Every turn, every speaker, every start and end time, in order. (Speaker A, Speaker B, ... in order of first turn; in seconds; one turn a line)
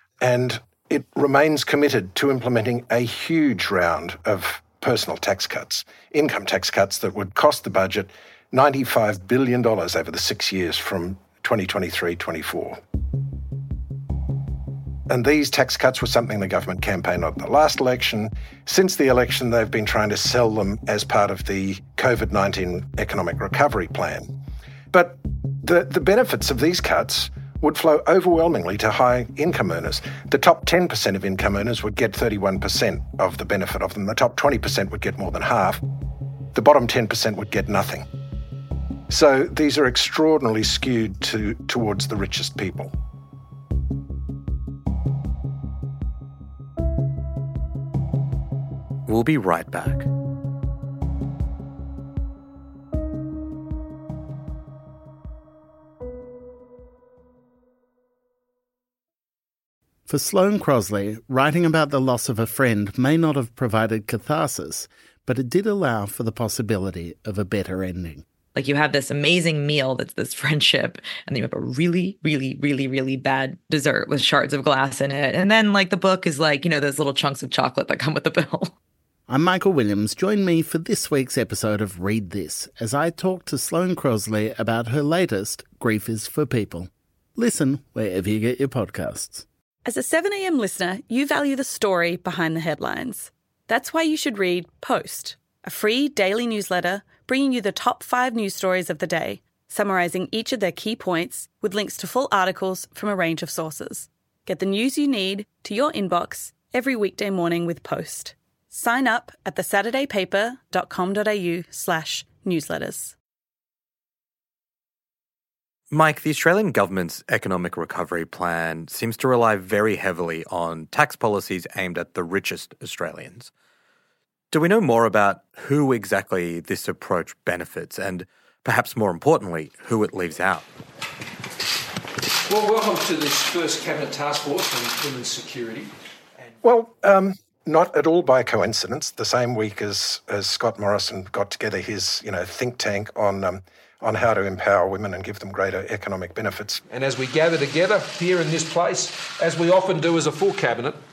Speaker A: 0.2-12.8
Speaker A: 15.1-24.3
Speaker A: 24.9-35.8
Speaker A: 36.5-38.0
Speaker A: 39.1-42.9
Speaker B: 49.1-50.1
Speaker C: 60.1-68.3
Speaker D: 68.5-78.7
Speaker C: 79.3-89.5
Speaker E: 89.8-113.2
Speaker B: 115.9-123.5
Speaker B: 124.5-130.7
Speaker F: 132.5-135.9
Speaker A: 136.6-146.8
Speaker F: 146.9-151.0